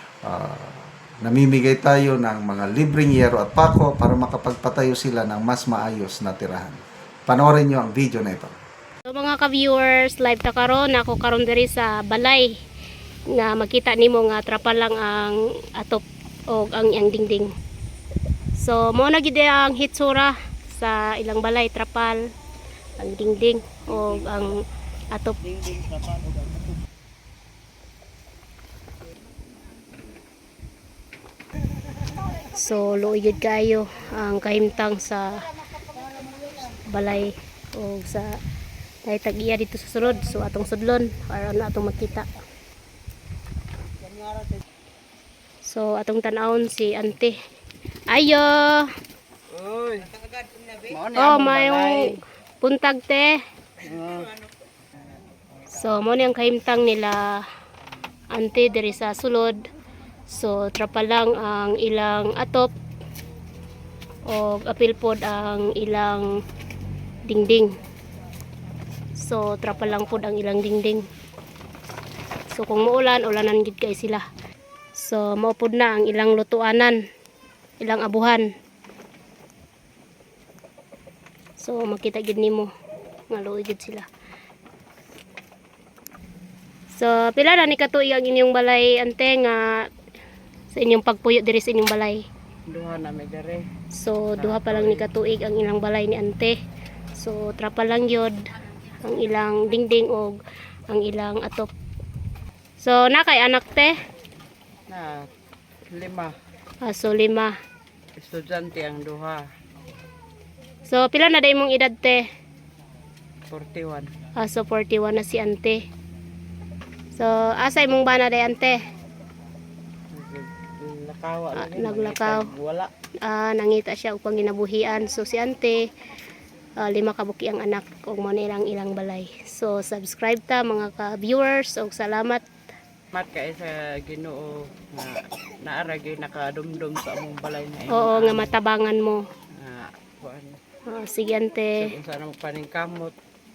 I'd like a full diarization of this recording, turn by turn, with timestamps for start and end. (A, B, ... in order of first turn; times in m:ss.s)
0:00.2-0:08.6 A
0:09.1-0:12.5 B
0:13.3-0:17.5 B
0:18.6-0:22.2 B
0:23.0-0:25.9 B
0:32.5-0:35.4 B
0:36.7-0:38.4 B
0:39.0-0:42.3 B
0:45.6-0:47.4 B
0:48.1-0:48.9 B
0:49.5-0:50.1 C
0:50.8-0:52.2 C
0:51.2-0:53.4 B
0:53.8-0:54.3 C
0:55.7-0:57.4 B
0:58.3-0:59.6 B
1:00.3-1:02.7 B
1:04.3-1:06.3 B
1:07.3-1:07.7 B
1:09.2-1:11.0 B
1:12.5-1:14.3 B
1:15.0-1:17.0 B
1:17.8-1:18.5 B
1:21.6-1:22.7 B
1:23.3-1:24.1 B
1:27.0-1:29.9 B
1:30.7-1:32.2 B
1:32.7-1:33.6 C
1:33.9-1:36.6 B
1:34.4-1:35.1 C
1:37.2-1:38.4 B
1:39.0-1:40.4 B
1:40.9-1:41.7 B
1:42.8-1:43.9 B
1:44.9-1:45.3 C
1:45.9-1:46.4 C
1:46.8-1:47.6 B
1:48.2-1:49.4 C
1:50.9-1:52.2 B
1:53.5-1:54.1 C
1:54.4-1:55.8 B
1:57.2-1:58.8 B
2:00.1-2:02.9 C
2:01.6-2:02.5 B
2:03.2-2:05.8 B
2:06.8-2:12.4 B
2:13.1-2:18.6 C
2:17.9-2:19.2 B
2:19.6-2:20.6 C
2:20.9-2:21.9 B
2:21.8-2:23.2 C